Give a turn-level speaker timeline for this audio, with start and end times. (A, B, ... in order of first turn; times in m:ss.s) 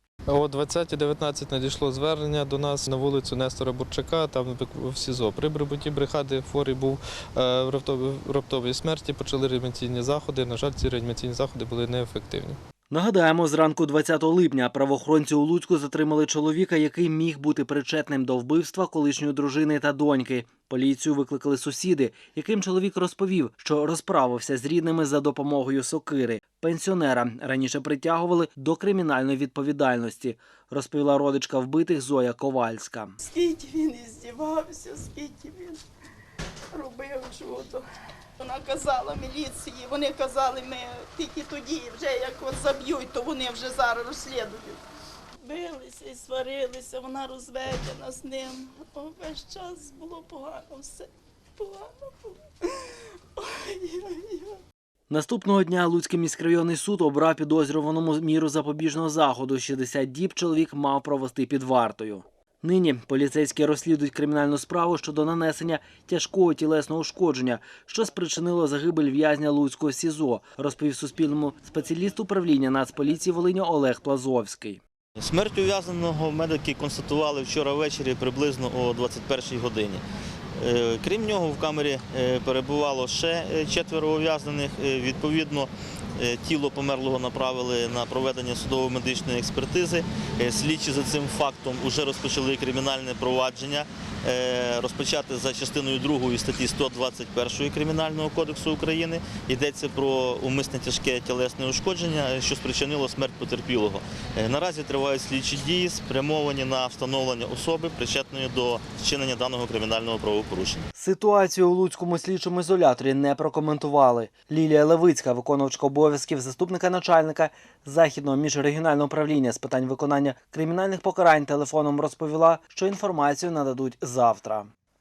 0:00.3-0:12.6 A
0:12.9-0:33.2 B
0:33.2-0:35.8 C
0:36.7-0:37.8 C
0:38.4-0:44.8 C
0:45.4-0:54.6 C
0:55.1-1:14.8 B
1:15.2-1:20.0 D
1:20.6-1:50.8 D
1:50.9-2:04.7 B